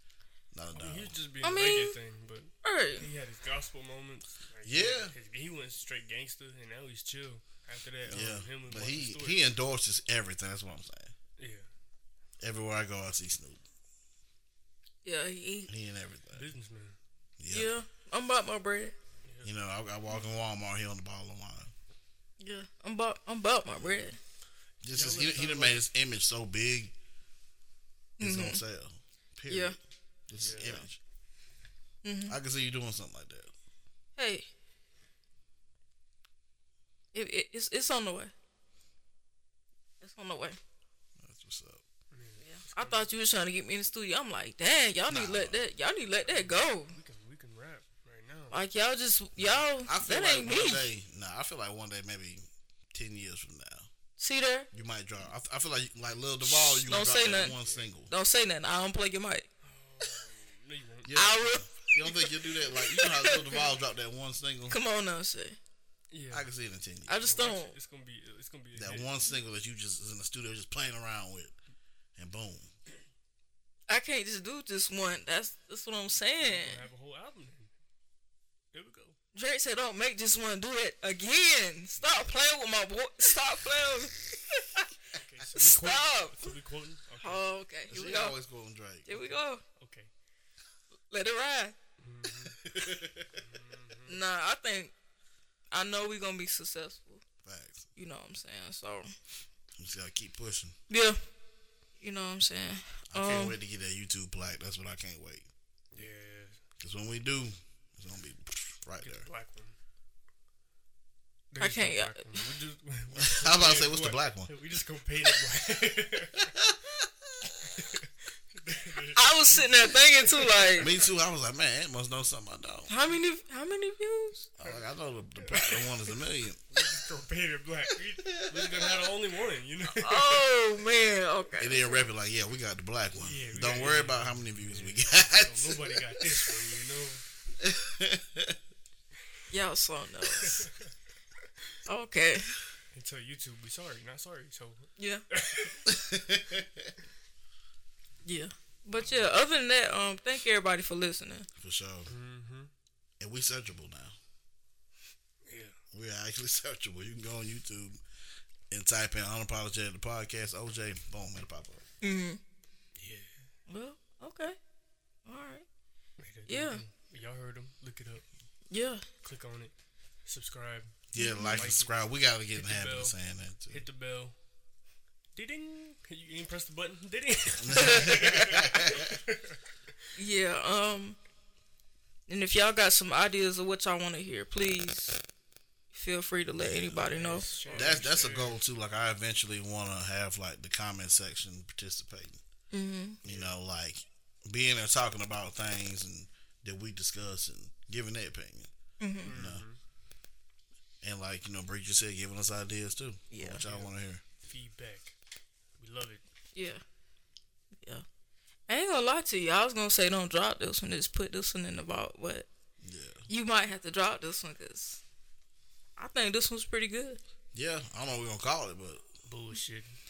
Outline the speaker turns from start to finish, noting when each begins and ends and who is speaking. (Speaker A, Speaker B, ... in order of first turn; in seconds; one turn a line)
Speaker A: 0.5-1.1
Speaker B: 0.8-9.5
Speaker C: 1.4-2.0
Speaker C: 2.6-3.1
Speaker A: 4.7-5.1
Speaker A: 8.1-11.1
Speaker B: 11.4-11.7
Speaker A: 12.4-13.6
Speaker C: 15.1-15.7
Speaker A: 15.7-16.5
Speaker B: 16.4-17.0
Speaker A: 17.4-17.7
Speaker C: 17.5-18.9
Speaker B: 19.2-19.5
Speaker A: 19.4-21.7
Speaker C: 22.4-24.2
Speaker A: 24.8-26.9
Speaker B: 24.9-25.9
Speaker C: 28.2-28.6
Speaker A: 28.2-29.8
Speaker C: 29.5-29.8
Speaker A: 30.3-31.0
Speaker B: 30.4-30.8
Speaker C: 32.0-32.4
Speaker A: 32.3-33.5
Speaker C: 34.2-34.5
Speaker C: 37.1-38.3
Speaker C: 40.0-40.6
Speaker A: 41.2-41.8
Speaker B: 42.1-43.1
Speaker C: 42.4-46.9
Speaker A: 45.1-45.6
Speaker B: 46.3-48.6
Speaker C: 48.5-50.9
Speaker A: 49.4-53.9
Speaker C: 54.2-54.7
Speaker A: 54.7-58.1
Speaker C: 56.4-57.6
Speaker B: 57.6-57.9
Speaker C: 58.1-59.5
Speaker B: 59.6-61.1
Speaker A: 61.0-64.8
Speaker C: 61.1-62.3
Speaker C: 62.8-63.7
Speaker C: 64.7-65.6
Speaker B: 66.1-66.5
Speaker A: 66.3-67.3
Speaker C: 67.1-67.7
Speaker B: 67.2-69.1
Speaker A: 68.8-71.5
Speaker A: 72.2-72.7
Speaker C: 73.9-76.8
Speaker B: 76.4-77.7
Speaker B: 78.7-79.2
Speaker C: 79.3-84.8
Speaker B: 85.2-87.4
Speaker C: 85.6-86.5
Speaker C: 87.2-88.3
Speaker A: 87.9-89.3
Speaker C: 89.1-89.6
Speaker B: 89.8-90.1
Speaker C: 91.1-91.8
Speaker B: 92.0-92.6
Speaker A: 92.5-93.4
Speaker B: 93.3-94.2
Speaker C: 94.1-94.9
Speaker C: 95.7-97.2
Speaker A: 97.4-97.9
Speaker C: 98.0-99.1
Speaker A: 99.8-100.8
Speaker C: 100.9-101.2
Speaker C: 102.0-103.6
Speaker A: 103.1-105.5
Speaker B: 105.9-106.6
Speaker A: 106.8-109.3
Speaker B: 109.0-109.8
Speaker B: 111.5-116.5
Speaker C: 111.6-112.4
Speaker A: 113.2-114.5
Speaker A: 116.4-117.5
Speaker B: 117.7-121.0
Speaker C: 119.2-120.9
Speaker A: 120.8-122.9
Speaker C: 122.9-124.5
Speaker A: 124.6-126.6
Speaker B: 125.5-125.9
Speaker B: 126.7-130.4
Speaker A: 128.2-129.0
Speaker C: 129.9-132.0
Speaker A: 131.6-136.6
Speaker B: 133.2-137.2
Speaker A: 137.6-138.6
Speaker C: 139.5-140.7
Speaker B: 140.4-140.9
Speaker C: 141.9-142.6
Speaker B: 142.9-145.9
Speaker C: 145.0-145.2
Speaker A: 145.9-146.9
Speaker C: 148.2-151.5
Speaker B: 149.0-149.3
Speaker A: 151.6-152.1
Speaker B: 152.1-152.7
Speaker A: 153.2-154.2
Speaker B: 155.5-155.8
Speaker A: 155.9-158.0
Speaker A: 158.7-161.8
Speaker C: 162.0-162.4
Speaker B: 163.0-163.3
Speaker C: 163.7-164.6
Speaker C: 165.3-165.7
Speaker B: 166.2-168.3
Speaker C: 166.5-166.8
Speaker C: 168.7-169.1
Speaker B: 169.2-169.7
Speaker B: 170.2-171.9
Speaker A: 171.1-173.8
Speaker C: 171.2-171.7
Speaker B: 172.5-173.2
Speaker B: 173.7-174.3
Speaker B: 175.3-179.6
Speaker A: 177.6-179.2
Speaker C: 177.8-178.3
Speaker C: 180.2-181.2
Speaker C: 182.3-185.2
Speaker C: 185.9-187.8
Speaker A: 186.6-187.0
Speaker B: 187.0-188.6
Speaker A: 187.7-192.4
Speaker C: 192.7-193.2
Speaker A: 193.2-198.7
Speaker B: 193.2-193.5
Speaker C: 199.0-199.3
Speaker B: 199.2-199.8
Speaker A: 199.3-199.6
Speaker A: 201.0-204.2
Speaker C: 203.3-203.6
Speaker B: 203.6-203.9
Speaker B: 204.4-205.1
Speaker B: 205.8-206.2
Speaker C: 206.6-206.8
Speaker C: 208.7-212.5
Speaker A: 212.8-213.3
Speaker C: 213.3-215.0
Speaker C: 216.0-217.2
Speaker A: 217.5-219.1
Speaker B: 219.3-219.9